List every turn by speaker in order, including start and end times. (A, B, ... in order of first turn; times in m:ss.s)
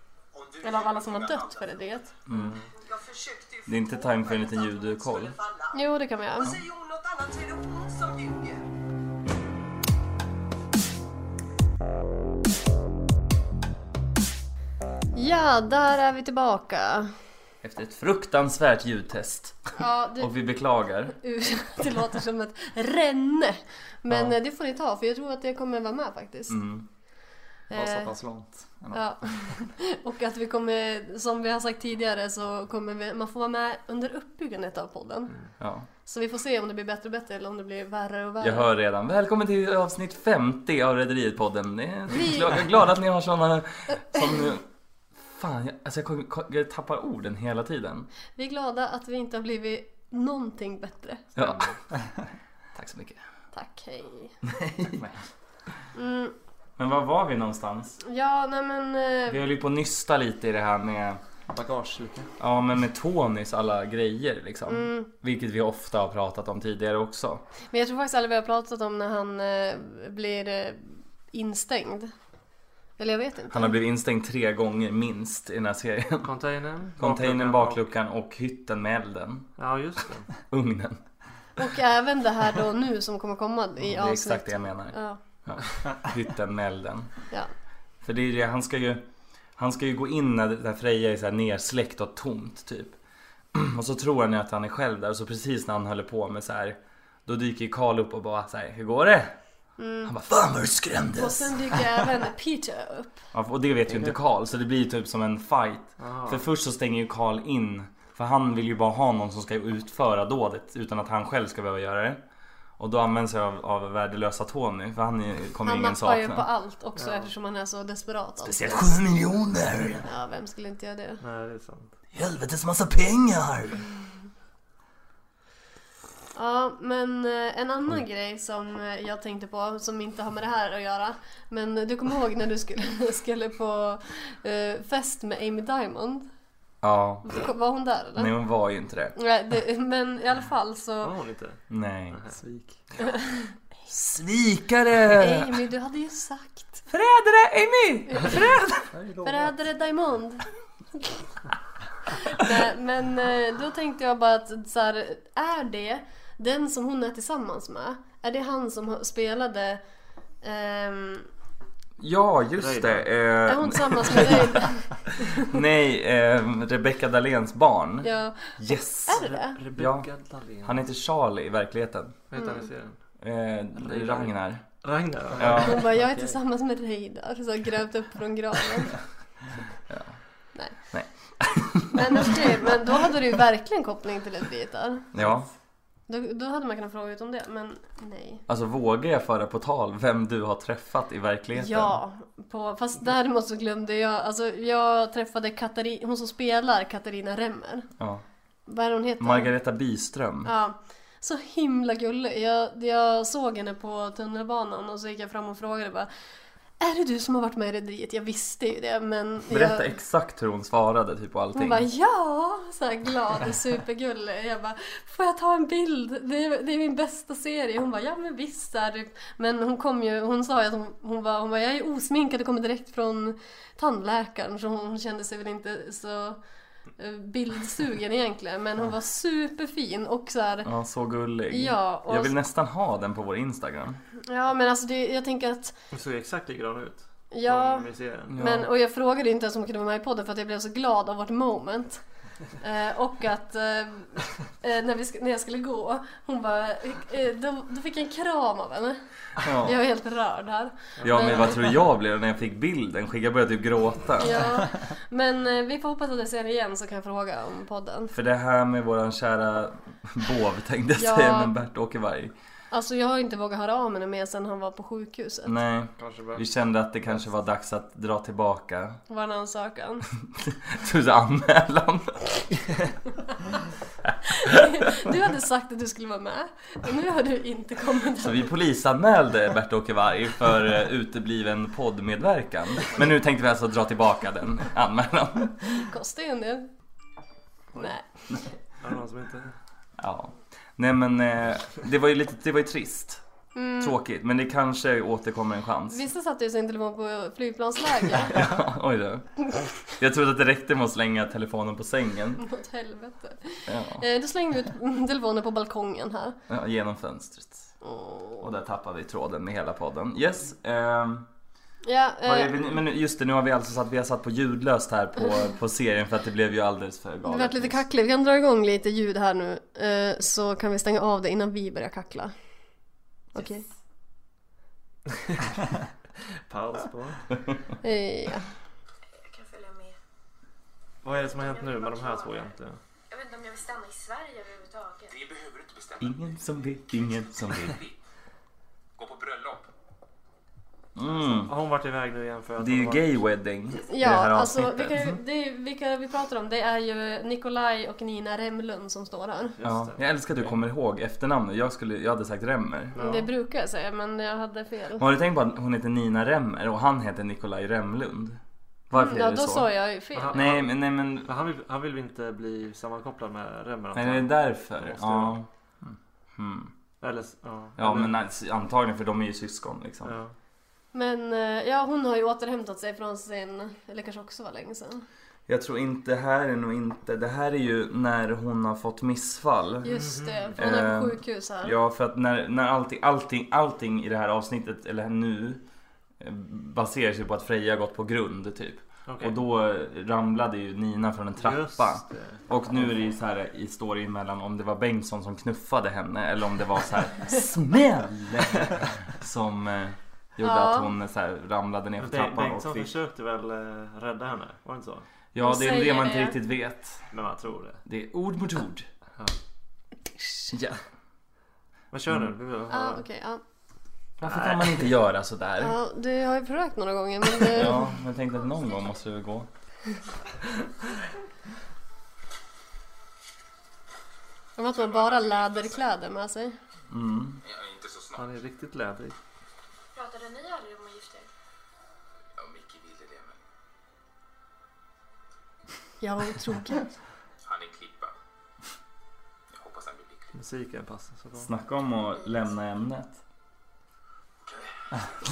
0:00.3-0:01.7 A
0:00.6-0:02.1 B
0:02.3-0:02.6 C
0:02.3-0:02.7 D
0:02.7-0:08.7 A
0:03.6-0:05.4 C
0:05.7-0:06.5 B
0:15.1-0:17.1 B
0:17.6-0:21.2 C
0:19.8-0:20.3 B
0:21.2-0:26.6 B
0:24.1-0:24.3 C
0:26.5-0:26.8 C
0:27.7-0:28.1 B
0:27.7-0:29.5 E
0:28.9-0:35.4 B
0:35.6-0:35.9 C
0:36.0-0:38.7 B
0:38.4-0:44.6 C
0:42.1-0:42.5 B
0:45.3-0:48.1 C
0:48.4-0:51.2 B
0:51.4-0:51.7 C
0:52.7-0:53.2 C
0:53.5-0:54.4 B
0:54.5-0:54.9 C
0:55.9-0:56.3 B
0:56.8-0:58.0 C
0:58.0-0:59.4 B
0:59.3-1:01.2 C
1:01.5-1:02.3 E
1:02.4-1:07.4 C
1:04.7-1:05.1 B
1:07.7-1:12.1 B
1:13.0-1:13.8 B
1:13.5-1:16.3 C
1:16.2-1:17.8 D
1:17.0-1:19.5 C
1:19.6-1:20.3 D
1:20.5-1:21.0 C
1:21.6-1:25.2 B
1:23.8-1:27.1 C
1:28.0-1:29.0 C
1:29.6-1:33.0 C
1:33.5-1:39.4 C
1:39.8-1:40.1 B
1:40.0-1:41.8 C
1:41.1-1:43.2 B
1:43.3-1:52.2 C
1:43.9-1:44.2 D
1:46.0-1:46.4 D
1:52.8-1:56.4 C
1:55.6-1:59.0 B
1:57.0-1:57.3 D
1:58.4-2:00.0 C
2:00.0-2:01.2 B
2:01.2-2:01.9 D
2:02.1-2:03.8 C
2:06.3-2:16.3 B
2:16.8-2:17.4 C
2:17.2-2:18.3 B
2:18.2-2:19.2 C
2:19.2-2:21.1 B
2:21.0-2:22.4 D
2:21.7-2:22.2 C
2:22.4-2:22.8 E
2:23.0-2:23.4 B
2:23.9-2:25.5 C
2:25.1-2:26.8 B
2:26.9-2:28.8 C
2:28.1-2:28.4 B
2:28.9-2:29.5 E
2:29.2-2:30.4 B
2:32.3-2:39.8 B
2:40.4-2:41.3 B
2:42.0-2:44.6 C
2:42.6-2:43.1 D
2:43.5-2:45.3 B
2:45.4-2:49.2 C
2:48.0-2:49.6 B
2:49.2-2:50.8 D
2:49.7-2:50.1 C
2:50.6-2:52.2 C
2:52.3-2:53.0 D
2:52.3-2:52.7 B
2:53.2-2:54.6 C
2:53.8-2:55.8 D
2:55.3-2:56.4 E
2:55.4-2:55.8 C
2:55.6-2:59.0 B
2:59.9-3:00.2 C
3:00.8-3:02.4 C
3:01.9-3:05.1 B
3:05.1-3:05.5 C
3:06.1-3:08.4 B
3:08.5-3:12.0 C
3:11.5-3:17.9 B
3:18.0-3:18.2 C
3:18.7-3:19.5 B
3:19.2-3:20.5 C
3:20.4-3:26.1 B
3:26.8-3:29.9 B
3:29.5-3:31.9 C
3:31.5-3:46.4 B
3:47.0-3:50.7 B
3:50.6-3:54.0 C
3:51.5-3:52.3 B
3:54.2-3:55.7 B
3:55.9-3:58.4 D
3:57.3-4:02.0 B
3:58.3-3:58.7 C
4:02.6-4:11.6 B
4:09.4-4:09.8 C
4:11.0-4:11.6 D
4:11.0-4:14.4 C
4:14.2-4:18.1 B
4:18.1-4:22.3 C
4:21.0-4:21.5 B
4:22.7-4:25.5 B
4:25.4-4:29.0 C
4:26.0-4:26.4 D
4:29.1-4:30.0 B
4:30.5-4:32.5 C
4:34.4-4:38.5 B
4:38.2-4:45.7 C
4:45.7-4:46.7 B
4:47.7-4:48.0 B
4:48.8-4:49.6 D
4:50.0-4:53.2 C
4:53.5-4:53.9 B
4:53.8-4:56.0 C
4:55.9-4:58.4 B
4:58.3-5:02.4 C
5:02.4-5:06.4 B
5:03.7-5:04.0 C
5:06.5-5:07.7 C
5:07.8-5:08.4 B
5:08.4-5:11.3 C
5:11.8-5:12.7 B
5:12.2-5:17.8 C
5:17.2-5:22.3 B
5:23.3-5:23.6 B
5:25.1-5:25.4 D
5:26.5-5:27.2 D
5:27.8-5:28.5 B
5:29.2-5:30.0 F
5:31.0-5:32.8 D
5:31.1-5:32.5 F
5:33.1-5:35.1 F
5:35.1-5:38.0 G
5:36.0-5:37.8 C
5:39.0-5:39.7 G
5:41.0-5:41.5 C
5:41.4-5:43.1 D
5:42.6-5:45.2 C
5:43.9-5:49.6 B
5:49.6-5:50.6 D
5:49.6-5:53.0 C
5:52.9-5:53.3 D
5:53.0-5:55.0 B
5:55.0-5:59.7 C
5:58.9-6:00.5 B
6:00.1-6:05.4 D
6:00.3-6:01.3 C
6:03.9-6:05.5 C
6:06.4-6:06.7 C
6:07.0-6:08.1 D
6:07.8-6:10.1 C
6:10.0-6:10.3 D
6:10.9-6:15.0 B
6:15.5-6:20.0 C
6:19.8-6:21.7 B
6:19.9-6:20.6 D
6:20.6-6:25.6 C
6:26.2-6:42.9 C
6:29.1-6:29.4 D
6:31.4-6:32.9 D
6:40.4-6:40.9 B
6:42.0-6:45.1 D
6:45.3-6:47.1 C
6:45.4-6:46.4 B
6:47.1-6:47.8 D
6:47.8-6:48.9 C
6:50.5-6:50.8 C
6:51.9-6:53.0 D
6:52.7-6:53.4 B
6:54.2-6:55.8 C
6:54.2-6:54.9 D
6:55.6-6:57.9 B
6:57.5-6:59.5 C
7:04.6-7:06.6 B
7:04.7-7:05.9 G
7:06.9-7:07.4 C
7:07.4-7:08.4 G
7:08.2-7:09.2 D
7:09.9-7:11.3 F
7:12.4-7:13.4 G
7:16.0-7:16.8 B
7:17.4-7:18.1 G
7:19.5-7:20.4 G
7:20.3-7:21.5 D
7:21.4-7:23.2 C